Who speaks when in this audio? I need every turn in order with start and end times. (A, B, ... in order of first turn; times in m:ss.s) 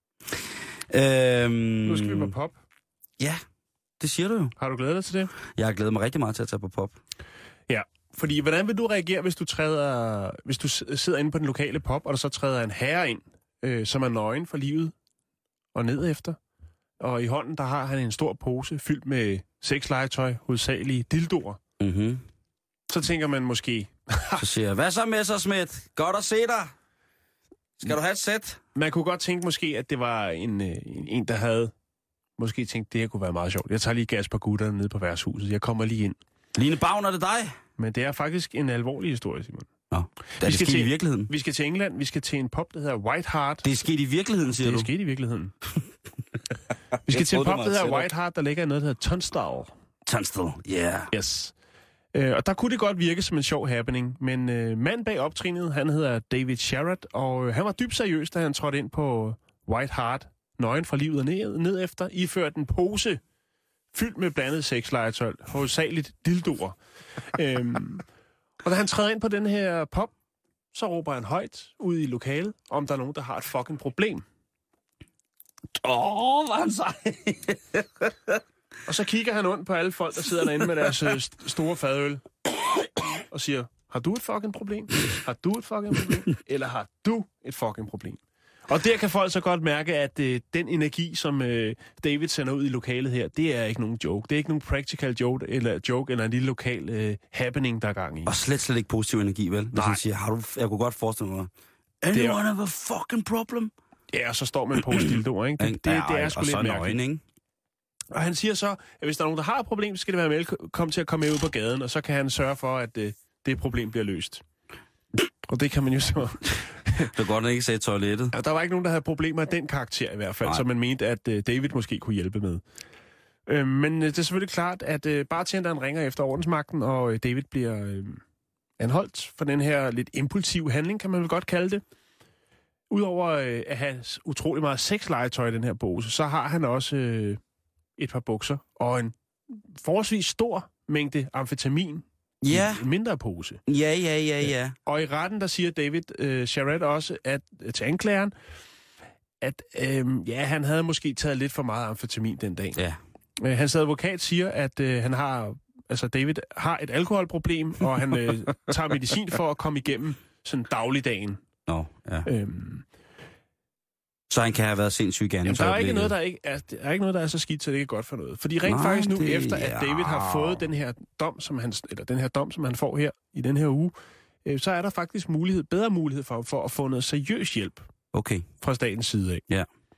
0:00.3-0:02.3 A
0:01.8-0:02.6 B
0:04.0-0:04.5 A
0:04.6-0:05.3 B
0:05.5-0:06.9 A
0:07.7-0:14.9 B
0:15.7-0:16.4 B
0:17.0-0:21.6 B
0:21.8-0:22.2 A
0:22.9-0:24.4 B
0:24.4-0:26.7 A
0:27.8-0:28.6 A
0:28.7-0:31.7 B
0:32.4-0:36.2 B
0:36.5-0:37.5 A
0:37.8-0:39.7 B
0:39.9-0:41.3 A
0:40.4-0:43.7 B
0:43.6-0:44.9 A
0:44.5-0:45.5 B
0:47.0-0:49.7 B
0:47.1-0:48.1 A
0:50.0-0:51.1 A
0:51.1-0:51.5 B
0:52.1-1:03.2 B
1:03.9-1:08.0 B
1:08.6-1:10.1 B
1:10.7-1:14.2 B
1:15.8-1:18.1 A
1:18.8-1:22.2 B
1:23.3-1:38.4 B
1:38.2-1:41.5 A
1:39.7-1:40.0 B
1:42.0-1:43.7 A
1:42.1-1:42.4 B
1:44.1-1:47.0 B
1:45.6-1:47.2 A
1:48.1-1:54.4 B
1:55.4-1:57.1 B
1:57.0-1:58.3 A
1:58.3-2:02.6 B
2:03.4-2:08.2 B
2:08.8-2:11.8 B
2:12.9-2:17.4 B
2:18.0-2:23.6 B
2:22.4-2:22.9 A
2:23.6-2:24.8 A
2:24.4-2:28.3 B
2:29.4-2:32.8 B
2:33.4-2:41.4 B
2:41.7-2:42.3 A
2:42.2-2:42.8 B
2:44.3-2:46.1 A
2:45.4-2:57.9 B
2:48.6-2:50.7 A
2:58.1-2:58.4 A
2:58.6-2:59.4 B